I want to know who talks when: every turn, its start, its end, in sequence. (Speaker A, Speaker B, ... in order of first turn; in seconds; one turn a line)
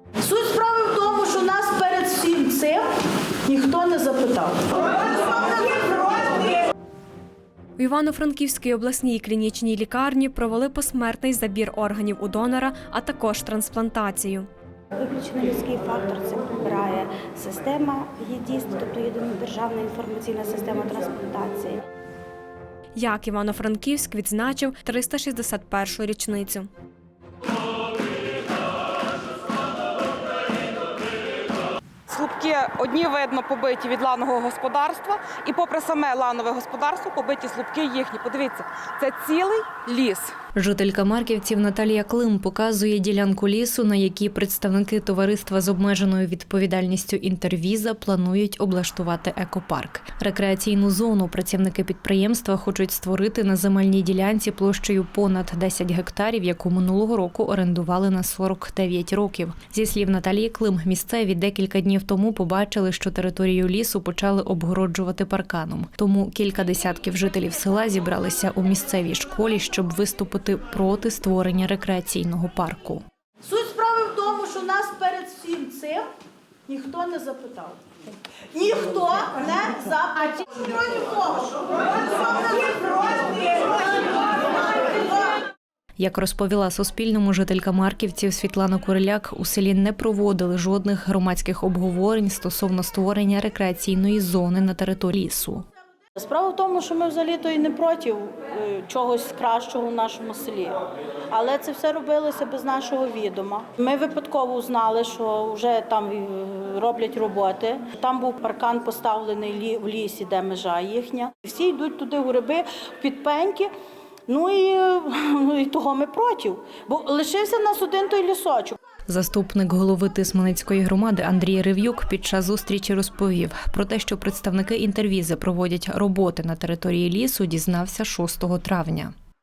Speaker A: 0.2-2.9
Speaker A: 3.4-5.0
Speaker A: 5.8-6.5
Speaker B: 7.8-14.5
Speaker C: 15.0-21.8
Speaker B: 22.9-26.7
Speaker D: 32.1-40.3
Speaker E: 40.5-73.0
Speaker A: 73.4-76.1
Speaker A: 76.7-77.8
Speaker A: 78.5-85.4
Speaker E: 86.0-95.6
Speaker A: 96.2-113.7
Speaker A: 114.3-118.8
Speaker E: 119.1-129.1